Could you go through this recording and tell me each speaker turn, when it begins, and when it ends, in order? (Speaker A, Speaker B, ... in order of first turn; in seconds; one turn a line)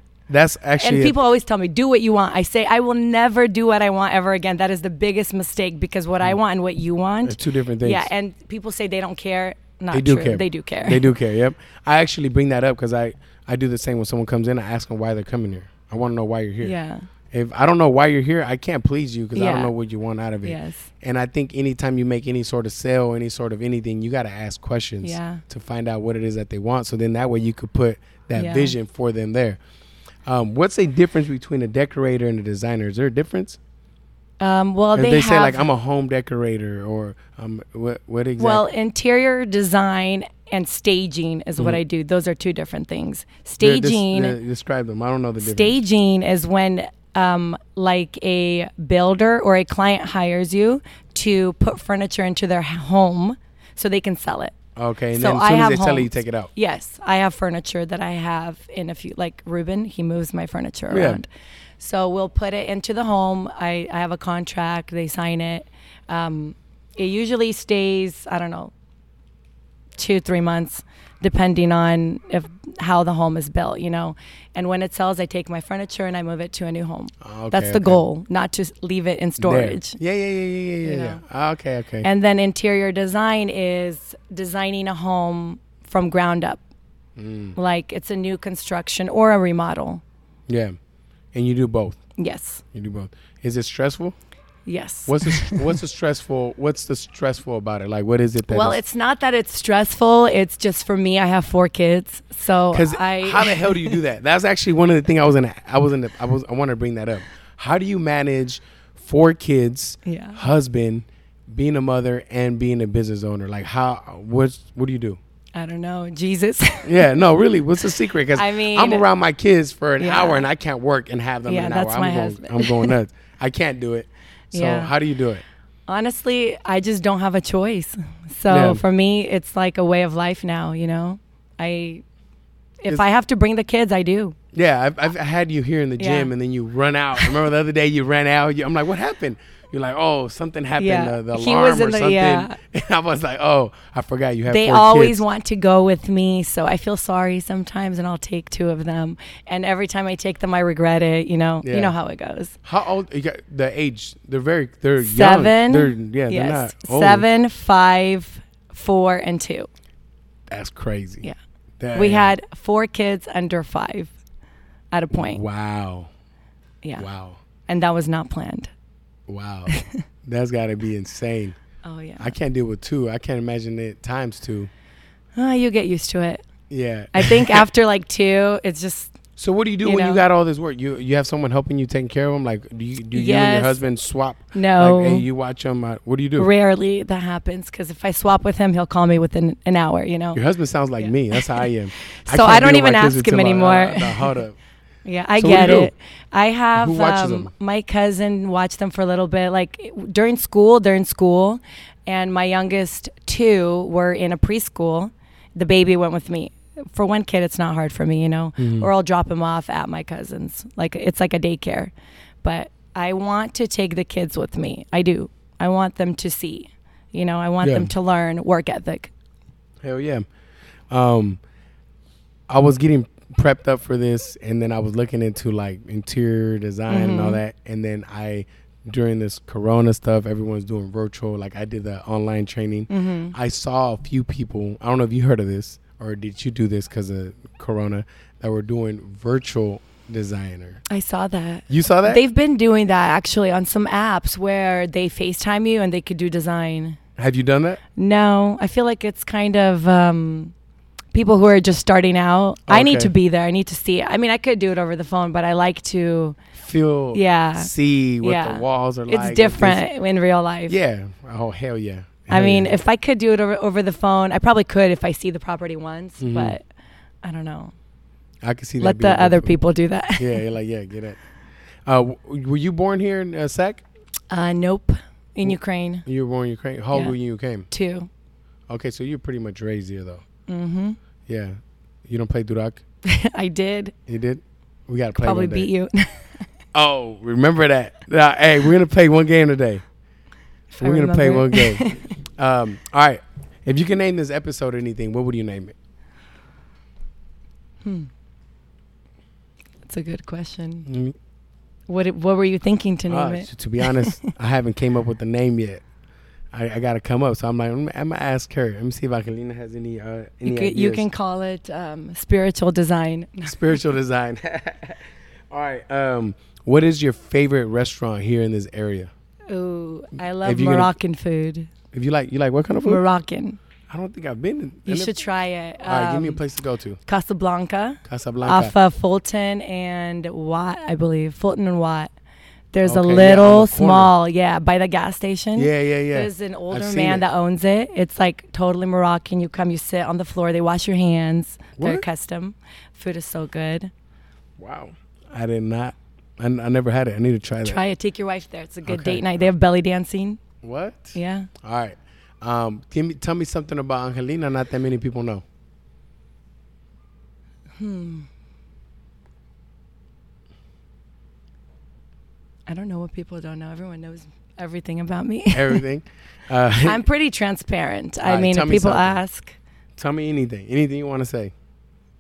Speaker A: 0.3-1.1
Speaker B: 0.8-11.1
Speaker A: 7.2-8.1
Speaker A: 9.9-16.8
Speaker B: 16.6-17.1
Speaker A: 17.3-29.6
Speaker B: 19.4-19.7
Speaker B: 20.4-20.9
Speaker B: 25.0-25.4
Speaker B: 28.4-28.8
Speaker A: 30.3-33.6
Speaker B: 34.4-35.7
Speaker A: 35.0-38.6
Speaker B: 38.4-44.4
Speaker A: 43.6-45.8
Speaker B: 45.4-54.6
Speaker A: 54.8-56.5
Speaker B: 55.2-61.3
Speaker A: 60.9-61.2
Speaker B: 61.8-68.7
Speaker B: 70.0-80.0
Speaker A: 77.2-78.0
Speaker A: 79.4-82.1
Speaker B: 80.8-81.2
Speaker B: 82.0-86.6
Speaker A: 87.2-87.6
Speaker B: 87.6-90.0
Speaker A: 90.5-90.8
Speaker A: 91.3-92.0
Speaker B: 92.2-92.6
Speaker A: 92.7-94.2
Speaker B: 94.7-95.8
Speaker A: 95.1-98.8
Speaker B: 98.5-104.0
Speaker A: 102.7-115.2
Speaker B: 110.0-110.4
Speaker B: 115.6-117.0
Speaker A: 116.8-125.4
Speaker B: 118.3-119.1
Speaker B: 120.0-120.5
Speaker B: 121.5-122.9
Speaker B: 124.5-124.9
Speaker B: 125.9-132.0
Speaker A: 128.5-128.8
Speaker B: 132.8-134.4
Speaker A: 134.5-145.2
Speaker B: 136.0-136.3
Speaker B: 140.8-142.6
Speaker B: 144.5-152.6
Speaker A: 151.6-151.9
Speaker A: 152.7-157.3
Speaker B: 155.0-159.7
Speaker A: 160.5-162.3
Speaker B: 161.9-164.1
Speaker B: 164.9-165.4
Speaker A: 165.1-166.1
Speaker A: 167.0-167.4
Speaker B: 167.7-168.7
Speaker A: 169.3-171.6
Speaker B: 169.7-170.0
Speaker B: 171.8-172.3
Speaker A: 172.2-174.7
Speaker B: 175.3-176.4
Speaker A: 176.7-177.7
Speaker B: 177.1-179.2
Speaker A: 179.4-186.5
Speaker B: 179.8-180.2
Speaker B: 183.1-183.8
Speaker B: 184.5-185.3
Speaker B: 186.4-190.4
Speaker A: 190.3-194.6
Speaker B: 191.0-191.6
Speaker B: 192.1-194.3
Speaker B: 195.1-219.1
Speaker A: 195.4-195.9
Speaker A: 196.8-197.5
Speaker A: 208.6-208.9
Speaker A: 217.6-217.9
Speaker A: 219.8-220.2
Speaker A: 220.9-221.4
Speaker A: 222.5-240.8
Speaker B: 226.9-227.4
Speaker B: 232.9-233.3
Speaker B: 240.9-247.0
Speaker A: 241.7-242.2
Speaker A: 247.2-247.8
Speaker B: 248.0-250.5
Speaker B: 251.1-256.4
Speaker A: 252.7-253.1
Speaker A: 256.6-259.8
Speaker B: 257.1-260.8
Speaker A: 260.7-262.8
Speaker B: 262.3-266.6
Speaker A: 266.2-266.6
Speaker B: 267.2-267.7
Speaker A: 268.4-269.5
Speaker B: 268.8-270.4
Speaker A: 270.2-271.2
Speaker A: 271.9-273.8
Speaker B: 274.3-276.1
Speaker A: 276.1-277.7
Speaker B: 277.7-278.1
Speaker A: 278.7-280.2
Speaker B: 280.5-281.0
Speaker A: 281.3-281.6
Speaker A: 282.1-282.8
Speaker B: 283.1-283.9
Speaker A: 284.1-285.7
Speaker B: 285.2-286.4
Speaker A: 286.7-289.8
Speaker B: 290.7-292.1
Speaker A: 290.8-295.8
Speaker B: 297.8-298.1
Speaker B: 299.9-300.9
Speaker A: 300.9-301.1
Speaker B: 301.9-304.3
Speaker A: 303.1-305.8
Speaker A: 306.5-311.1
Speaker B: 310.4-313.8
Speaker A: 313.4-319.1
Speaker B: 319.5-321.7
Speaker A: 320.4-320.9
Speaker A: 321.9-323.0
Speaker B: 322.8-323.6
Speaker A: 323.9-325.1
Speaker B: 324.9-326.4
Speaker A: 325.9-327.0
Speaker B: 327.1-332.1
Speaker A: 328.1-328.7
Speaker B: 332.7-343.9
Speaker A: 332.9-334.1
Speaker A: 335.6-337.3
Speaker A: 341.8-342.0
Speaker A: 344.6-347.8
Speaker B: 347.6-350.4
Speaker A: 348.9-349.2
Speaker A: 350.6-355.4
Speaker B: 351.1-351.5
Speaker B: 357.8-358.3
Speaker B: 362.7-365.8
Speaker A: 365.5-367.0
Speaker B: 366.8-369.6
Speaker A: 368.2-369.2
Speaker A: 370.0-371.5